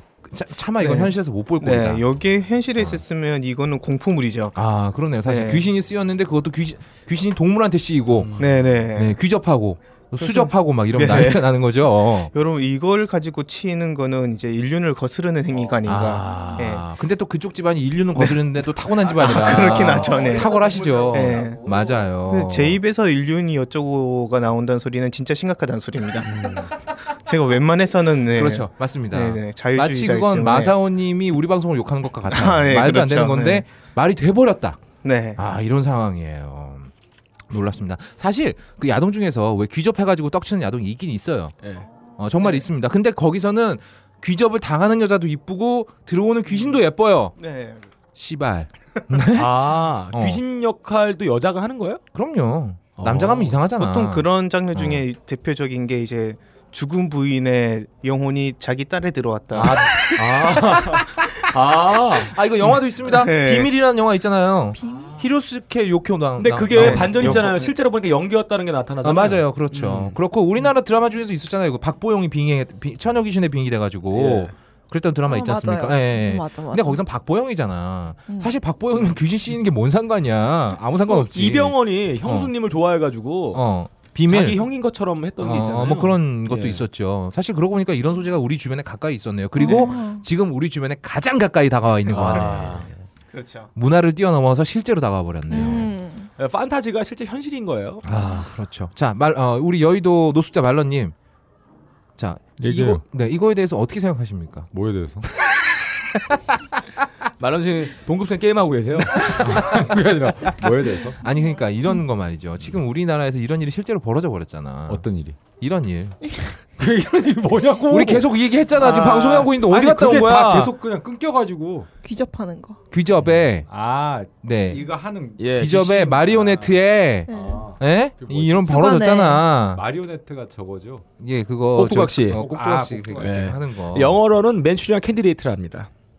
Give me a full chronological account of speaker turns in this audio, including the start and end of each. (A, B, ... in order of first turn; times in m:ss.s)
0:00.2-0:02.0 A
0:00.8-0:04.6 B
0:04.6-0:12.3 A
0:05.2-0:05.7 B
0:08.1-0:08.5 C
0:08.4-0:09.2 B
0:10.2-0:11.5 B
0:12.2-0:16.8 B
0:15.9-0:22.8 A
0:18.2-0:20.5 B
0:19.3-0:21.7 C
0:21.1-0:21.6 B
0:22.3-0:30.8 B
0:26.2-0:26.7 C
0:28.3-0:34.8 A
0:32.3-0:33.6 B
0:35.0-0:35.4 B
0:35.4-0:36.9 A
0:37.5-0:41.6 A
0:41.6-0:41.9 C
0:42.2-0:47.4 A
0:47.4-0:47.9 B
0:48.2-0:49.6 A
0:49.4-0:52.0 C
0:50.1-0:50.4 A
0:52.1-0:55.0 A
0:53.0-0:53.6 C
0:53.8-0:59.9 B
0:59.6-1:02.4 C
1:02.3-1:07.5 A
1:03.1-1:03.7 B
1:04.8-1:05.2 D
1:06.4-1:10.2 C
1:06.7-1:07.7 B
1:09.0-1:22.5 A
1:14.1-1:14.5 C
1:15.3-1:17.0 D
1:21.1-1:23.6 C
1:23.5-1:24.6 A
1:24.3-1:26.8 C
1:25.4-1:32.9 A
1:29.6-1:30.2 D
1:32.1-1:32.9 C
1:33.3-1:33.7 B
1:33.8-1:35.9 A
1:35.5-1:36.3 D
1:36.4-1:38.1 C
1:38.0-1:41.2 A
1:42.2-1:44.7 A
1:42.6-1:43.0 E
1:44.7-1:45.3 E
1:47.4-1:49.6 C
1:49.2-1:49.8 A
1:49.2-1:51.2 E
1:51.2-1:56.4 A
1:54.9-1:55.4 E
1:56.8-2:01.9 E
1:57.9-2:00.7 A
1:58.8-1:59.1 C
2:02.0-2:02.8 D
2:02.9-2:03.7 A
2:03.2-2:08.9 E
2:04.4-2:04.8 A
2:05.4-2:06.1 C
2:05.5-2:09.8 A
2:07.3-2:07.7 D
2:08.6-2:09.4 D
2:09.7-2:11.0 E
2:11.2-2:14.2 A
2:11.8-2:12.4 C
2:12.3-2:13.5 E
2:13.2-2:15.9 C